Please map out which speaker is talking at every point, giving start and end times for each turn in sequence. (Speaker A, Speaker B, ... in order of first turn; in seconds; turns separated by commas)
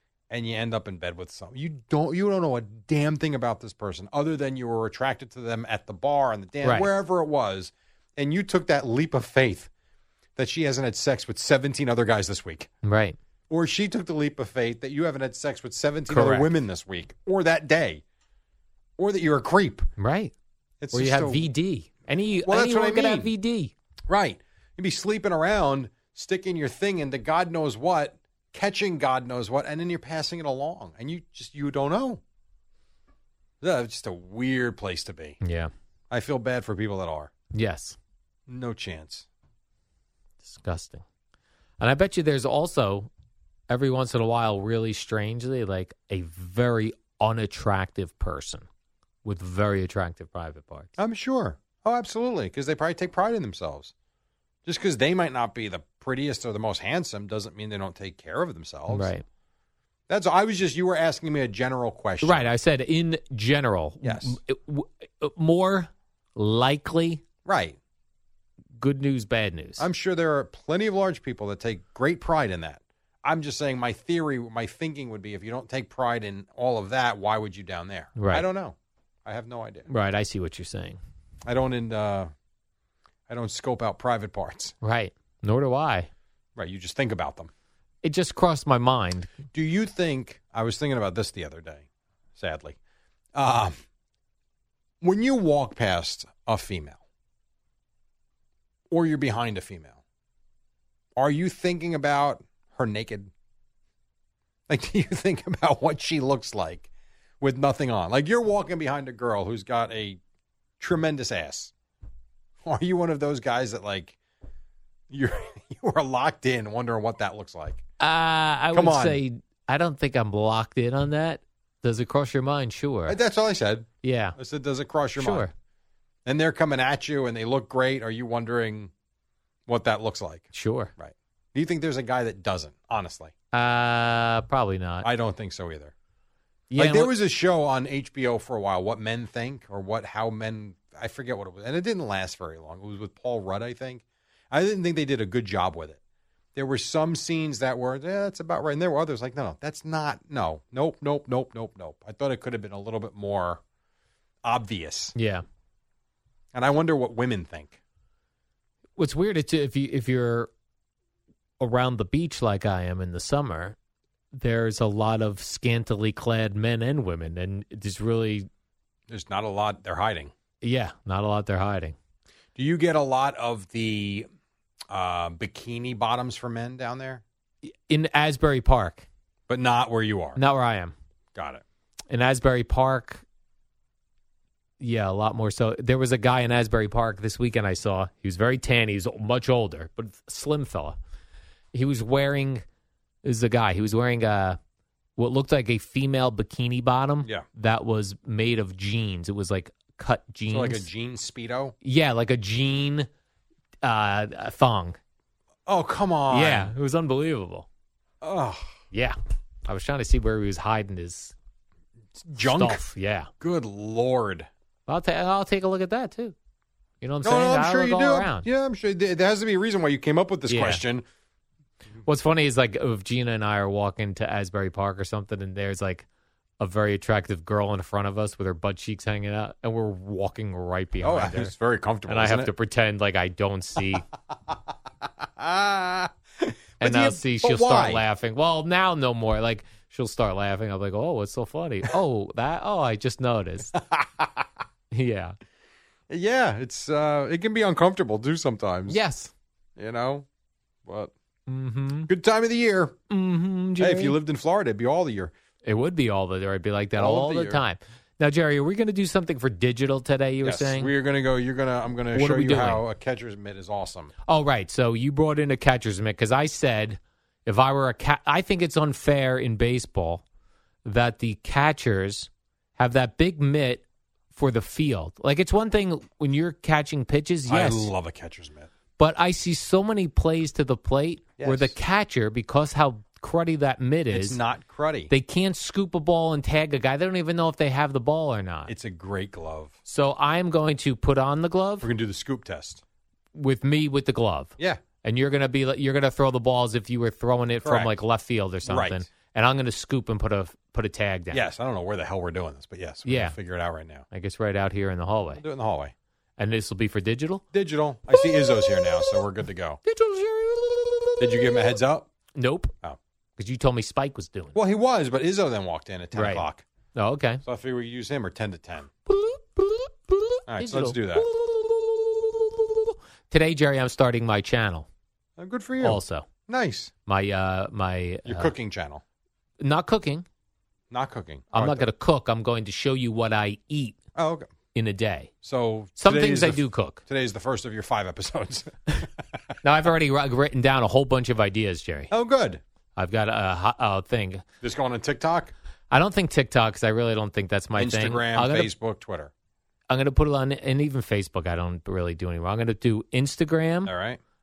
Speaker A: 0.3-9.7, Speaker B: 6.6-6.9, Speaker A: 10.4-12.7, Speaker B: 12.8-13.2, Speaker A: 13.5-18.0, Speaker B: 16.1-16.5, Speaker A: 19.0-19.9, Speaker B: 20.0-20.3, Speaker A: 20.8-21.4, Speaker B: 20.9-23.7, Speaker A: 22.4-23.3, Speaker A: 24.1-32.2, Speaker A: 33.6-35.4, Speaker B: 35.4-35.7, Speaker A: 36.1-37.3, Speaker B: 37.5-38.0, Speaker A: 38.5-39.2, Speaker B: 40.4-41.0, Speaker B: 41.8-43.1, Speaker B: 43.7-48.6, Speaker B: 49.2-50.9, Speaker A: 51.0-53.9, Speaker A: 54.6-59.1, Speaker B: 58.9-59.2, Speaker A: 60.1-62.5, Speaker B: 62.2-67.2, Speaker A: 64.0-64.4, Speaker A: 67.5-67.8, Speaker B: 68.8-69.8, Speaker A: 69.8-79.9, Speaker B: 78.2-78.4, Speaker B: 79.9-81.0, Speaker A: 81.5-82.3, Speaker A: 83.3-84.7, Speaker B: 84.8-86.1, Speaker A: 86.5-87.5, Speaker B: 88.0-89.3, Speaker A: 89.5-92.8, Speaker A: 93.3-93.8, Speaker A: 95.0-97.0, Speaker A: 98.9-100.0, Speaker A: 101.2-103.3, Speaker A: 104.7-106.9, Speaker A: 107.4-110.2, Speaker A: 110.8-111.7, Speaker A: 112.6-114.2, Speaker A: 115.1-117.8, Speaker B: 118.0-123.2, Speaker A: 118.7-119.2, Speaker A: 123.1-125.5, Speaker B: 124.0-124.3, Speaker B: 125.2-125.5, Speaker A: 126.2-128.9, Speaker A: 129.7-133.3, Speaker B: 130.5-130.9, Speaker B: 133.5-135.1, Speaker A: 135.0-135.9, Speaker B: 136.7-137.1, Speaker A: 136.8-146.0, Speaker A: 146.6-153.6, Speaker A: 154.4-155.1, Speaker B: 155.1-155.4, Speaker A: 156.5-157.8, Speaker B: 159.0-160.5, Speaker B: 161.6-163.8, Speaker B: 164.3-168.5, Speaker A: 169.1-170.3, Speaker B: 170.6-171.9, Speaker A: 172.6-174.3, Speaker A: 174.9-177.2, Speaker B: 177.6-179.1, Speaker A: 179.5-180.4, Speaker B: 180.3-180.9, Speaker A: 181.3-181.6, Speaker B: 182.1-183.2, Speaker B: 184.8-191.0, Speaker B: 191.7-192.6, Speaker B: 193.2-194.6, Speaker B: 195.2-200.8, Speaker A: 200.5-201.7, Speaker B: 201.8-203.1, Speaker B: 203.8-205.0, Speaker A: 205.7-206.7, Speaker B: 206.3-207.7, Speaker A: 208.2-208.7, Speaker B: 209.7-211.3, Speaker A: 212.2-212.8, Speaker B: 212.4-213.3, Speaker A: 213.4-214.5, Speaker B: 214.9-216.3, Speaker B: 217.0-218.4, Speaker A: 217.2-221.0, Speaker B: 220.5-220.8, Speaker B: 222.0-226.1, Speaker B: 226.6-231.5, Speaker A: 231.0-232.5, Speaker B: 232.1-234.0, Speaker A: 235.4-238.0, Speaker B: 236.8-243.8, Speaker A: 243.8-244.4, Speaker B: 244.9-245.3, Speaker A: 246.1-249.0, Speaker B: 248.9-249.3, Speaker A: 249.8-250.2, Speaker A: 250.8-251.1, Speaker B: 251.5-252.1, Speaker A: 252.1-253.0, Speaker B: 253.1-254.2, Speaker A: 253.8-255.3, Speaker B: 255.6-260.9, Speaker A: 257.0-257.6, Speaker A: 260.4-264.1, Speaker B: 262.1-262.8, Speaker B: 264.3-270.2, Speaker B: 270.8-277.9, Speaker A: 277.5-278.7, Speaker B: 279.0-284.4, Speaker A: 281.4-281.8, Speaker A: 284.1-285.1, Speaker B: 285.1-288.7, Speaker A: 288.7-289.7, Speaker B: 289.9-291.9, Speaker A: 291.8-292.8, Speaker B: 293.3-301.4, Speaker A: 297.6-298.0, Speaker A: 298.6-299.1, Speaker A: 301.3-304.0, Speaker B: 303.0-303.4, Speaker B: 304.1-305.4, Speaker A: 305.4-305.9, Speaker B: 306.4-307.4, Speaker A: 307.5-309.8, Speaker B: 308.1-309.1, Speaker B: 309.8-311.7, Speaker A: 311.2-312.1, Speaker B: 312.3-312.7, Speaker B: 313.4-314.6, Speaker A: 314.5-316.6, Speaker B: 316.1-317.4, Speaker A: 317.4-318.9, Speaker B: 319.1-324.9, Speaker A: 320.5-321.2, Speaker A: 325.4-326.9, Speaker B: 325.8-326.3, Speaker B: 327.1-328.5, Speaker A: 328.2-329.0, Speaker B: 329.6-330.2, Speaker A: 330.9-331.9, Speaker B: 331.5-333.9, Speaker A: 334.1-334.5, Speaker B: 334.7-335.3, Speaker A: 335.4-339.1, Speaker B: 336.0-337.0, Speaker B: 339.6-342.1, Speaker A: 342.1-342.6, Speaker B: 342.9-344.4, Speaker A: 344.6-345.5, Speaker B: 345.9-348.7, Speaker A: 347.8-349.3, Speaker B: 349.9-353.9, Speaker A: 353.9-354.2